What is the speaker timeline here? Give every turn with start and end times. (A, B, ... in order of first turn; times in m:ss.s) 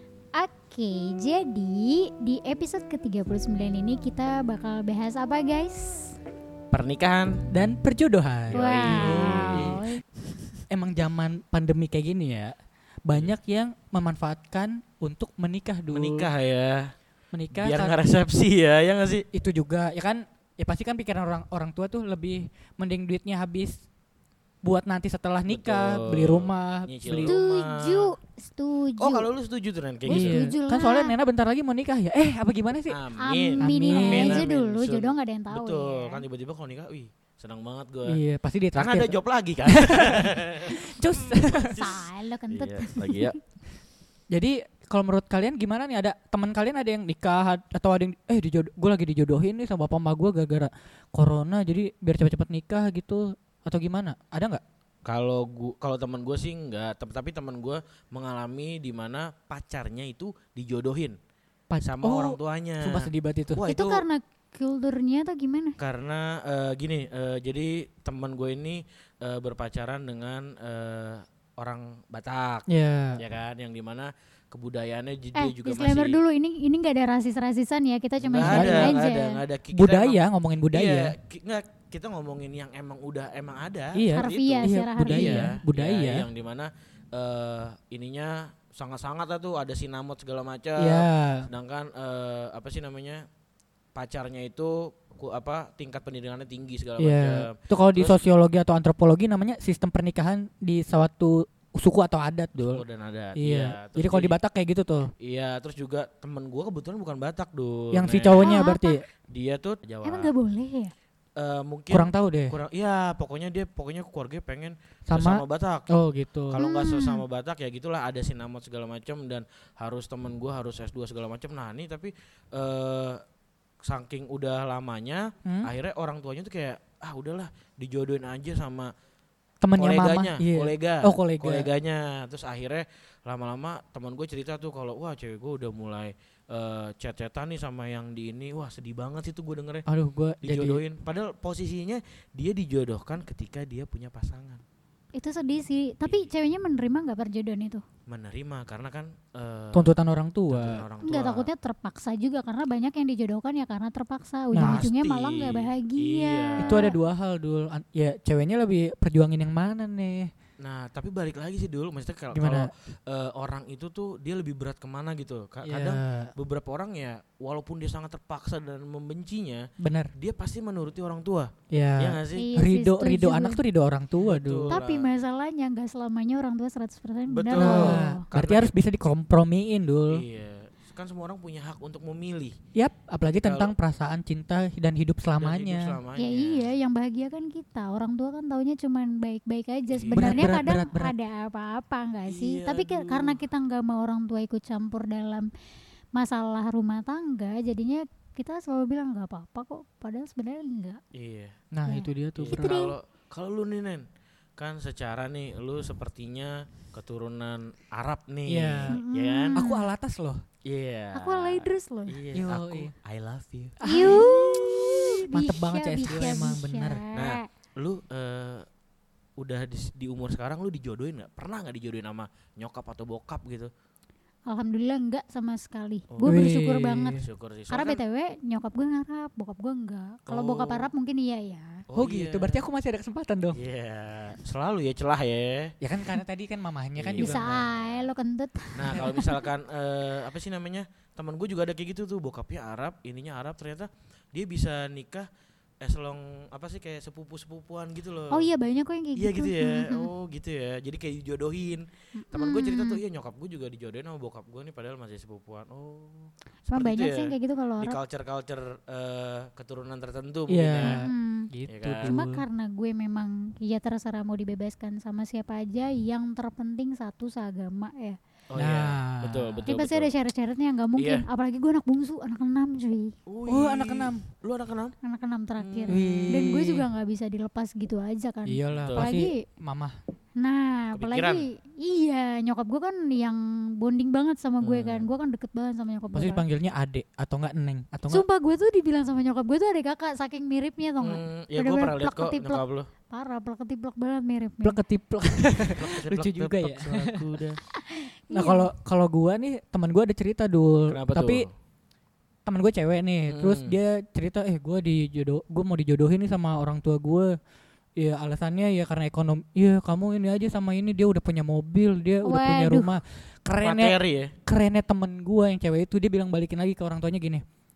0:00.3-0:06.1 A
0:06.7-0:07.4 B
0:07.5-0:09.8 C
0:08.5-0:09.8 B
0:08.5-0:10.0 A
0:10.7-0:16.3 C
0:15.9-0:16.9 B
0:17.3-0:17.9 C
0:17.5-0:19.2 B
0:19.3-0:23.8 C
0:24.6-0:27.3 C
0:25.5-0:28.1 B
0:27.2-0:29.3 A
0:29.0-0:30.4 B
0:30.1-0:31.2 A
0:30.1-0:33.0 C
0:32.9-0:38.2 B
0:33.2-0:36.2 A
0:33.6-0:34.4 C
0:38.0-0:41.8 C
0:38.7-0:40.8 B
0:41.3-0:43.4 B
0:41.7-0:43.2 A
0:44.3-0:54.6 C
0:55.0-1:01.2 B
1:01.7-1:03.6 C
1:01.8-1:04.0 B
1:03.7-1:05.8 A
1:05.8-1:16.2 B
1:12.7-1:13.2 C
1:15.3-1:19.4 A
1:18.2-1:20.2 B
1:18.4-1:19.0 C
1:19.7-1:21.1 C
1:20.7-1:33.2 B
1:23.9-1:26.3 C
1:24.1-1:25.5 A
1:30.8-1:31.5 C
1:34.0-1:38.2 B
1:37.0-1:42.8 C
1:42.6-1:44.4 B
1:43.4-1:45.1 C
1:45.2-1:48.6 B
1:47.9-1:49.0 C
1:48.4-1:49.0 A
1:49.3-1:50.3 B
1:50.0-1:50.9 A
1:51.4-1:55.9 B
1:51.9-1:52.6 C
1:55.1-1:56.6 C
1:56.5-2:03.2 B
1:56.6-1:57.2 A
2:03.8-2:08.9 B
2:05.4-2:05.7 C
2:09.6-2:11.7 C
2:09.8-2:19.8 B
2:19.9-2:20.8 C
2:20.4-2:24.6 B
2:25.1-2:27.8 A
2:28.1-2:29.9 B
2:29.7-2:30.8 C
2:30.5-2:31.5 B
2:31.0-2:37.0 A
2:34.5-2:34.8 C
2:34.6-2:36.9 B
2:36.6-2:40.3 C
2:40.6-2:52.5 B
2:42.3-2:42.7 C
2:45.6-2:46.3 C
2:49.8-2:50.1 C
2:51.7-2:54.7 C
2:52.3-2:53.6 A
2:54.2-2:55.1 B
2:54.7-2:58.2 A
2:57.3-2:58.7 B
2:57.5-3:00.2 C
3:00.1-3:02.6 B
3:02.7-3:06.0 C
3:03.2-3:03.7 B
3:05.4-3:06.7 B
3:06.2-3:15.5 A
3:09.9-3:10.5 B
3:10.2-3:11.1 C
3:12.3-3:13.4 B
3:16.1-3:21.0 A
3:21.1-3:21.5 B
3:21.7-3:22.8 C
3:21.8-3:22.9 A
3:22.4-3:24.0 B
3:24.6-3:29.6 B
3:28.5-3:29.0 C
3:28.9-3:29.9 A
3:29.5-3:30.4 C
3:30.6-3:35.0 B
3:31.1-3:32.2 A
3:32.3-3:32.9 C
3:33.8-3:34.3 C
3:33.8-3:37.5 A
3:35.3-3:37.0 C
3:36.1-3:36.5 B
3:37.1-3:38.6 B
3:39.4-3:43.7 B
3:44.5-3:51.8 A
3:46.1-3:46.4 B
3:46.2-3:47.2 C
3:47.2-3:48.0 B
3:50.3-3:50.9 B
3:51.9-3:52.6 B
3:51.9-3:53.6 C
3:53.5-3:55.7 B
3:55.8-3:57.4 C
3:57.0-3:58.1 B
3:57.2-3:59.3 A
3:58.7-4:05.3 B
4:05.8-4:08.5 B
4:08.3-4:10.1 A
4:09.2-4:21.0 B
4:12.2-4:13.0 A
4:16.7-4:18.0 A
4:20.5-4:22.4 C
4:20.8-4:21.5 A
4:21.7-4:22.2 B
4:22.0-4:28.2 A
4:28.5-4:30.1 B
4:28.5-4:29.6 C
4:29.7-4:33.1 A
4:31.0-4:31.2 B
4:33.3-4:35.0 B
4:33.4-4:34.2 C
4:35.0-4:39.4 A
4:35.6-4:36.4 B
4:35.9-4:36.9 C
4:38.4-4:40.0 C
4:38.7-4:39.1 B
4:40.4-4:46.5 A
4:40.9-4:41.4 B
4:44.6-4:45.1 B
4:46.1-4:48.2 C
4:48.1-4:54.8 A
4:51.0-4:52.9 B
4:54.6-4:57.2 C
4:55.7-4:57.6 B
4:57.8-4:58.7 A
4:58.3-5:01.4 C
5:00.9-5:01.5 B
5:02.4-5:07.4 C
5:03.3-5:03.8 B
5:08.0-5:13.9 C
5:12.2-5:13.0 A
5:13.6-5:14.3 B
5:14.4-5:17.4 C